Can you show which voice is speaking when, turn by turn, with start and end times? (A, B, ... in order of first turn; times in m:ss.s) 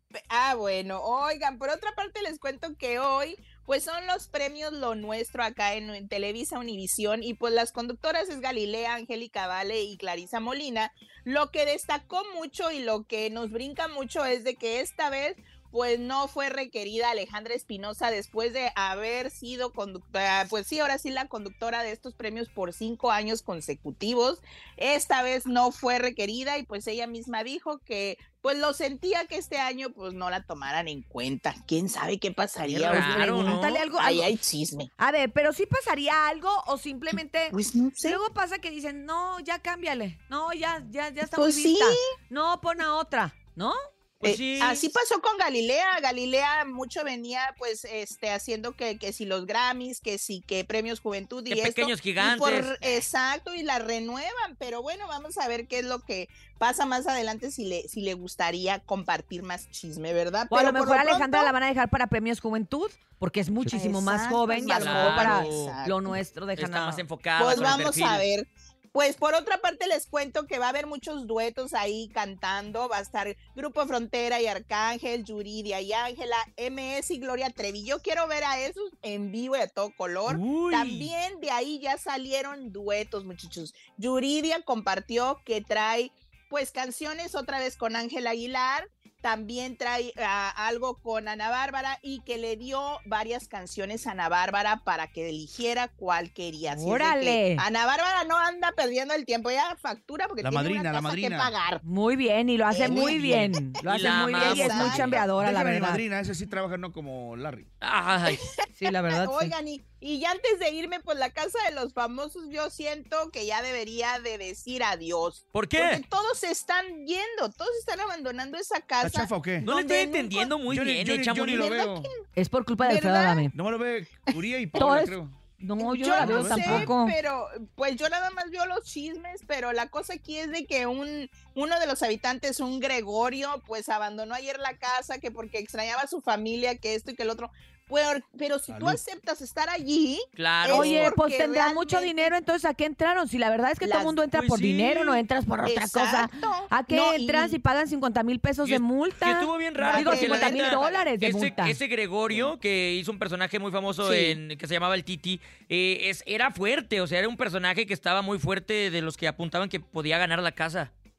0:00.2-0:34.9 A
0:32.6-0:33.9 B
0:32.9-0:34.3 C
0:35.0-0:43.8 C
0:37.5-0:38.2 A
0:41.4-0:42.0 A
0:44.2-0:44.9 B
0:44.2-1:01.5 A
0:51.5-0:53.0 B
1:00.5-1:07.0 C
1:03.7-1:06.2 A
1:04.6-1:05.8 B
1:06.6-1:08.3 B
1:07.4-1:41.8 A
1:07.6-1:07.8 C
1:20.2-1:21.1 B
1:36.7-1:37.6 C
1:40.4-1:41.5 D
1:41.8-1:46.0 C
1:42.7-1:45.3 A
1:43.1-1:45.2 B
1:45.4-1:47.7 D
1:47.8-1:48.4 B
1:48.2-2:00.5 A
1:48.7-1:49.5 C
1:55.5-1:56.0 B
1:59.0-1:59.7 D
1:59.6-2:01.7 B
2:00.7-2:02.1 D
2:01.5-2:02.2 A
2:02.4-2:03.5 C
2:02.8-2:03.5 A
2:03.5-2:05.4 D
2:04.7-2:07.2 C
2:05.8-2:22.3 A
2:06.2-2:06.9 D
2:18.7-2:19.0 D
2:20.4-2:21.1 B
2:20.7-2:31.8 C
2:23.8-2:24.2 A
2:24.3-2:25.2 B
2:25.6-2:27.6 A
2:28.6-2:40.9 B
2:29.8-2:31.1 A
2:34.0-2:34.4 A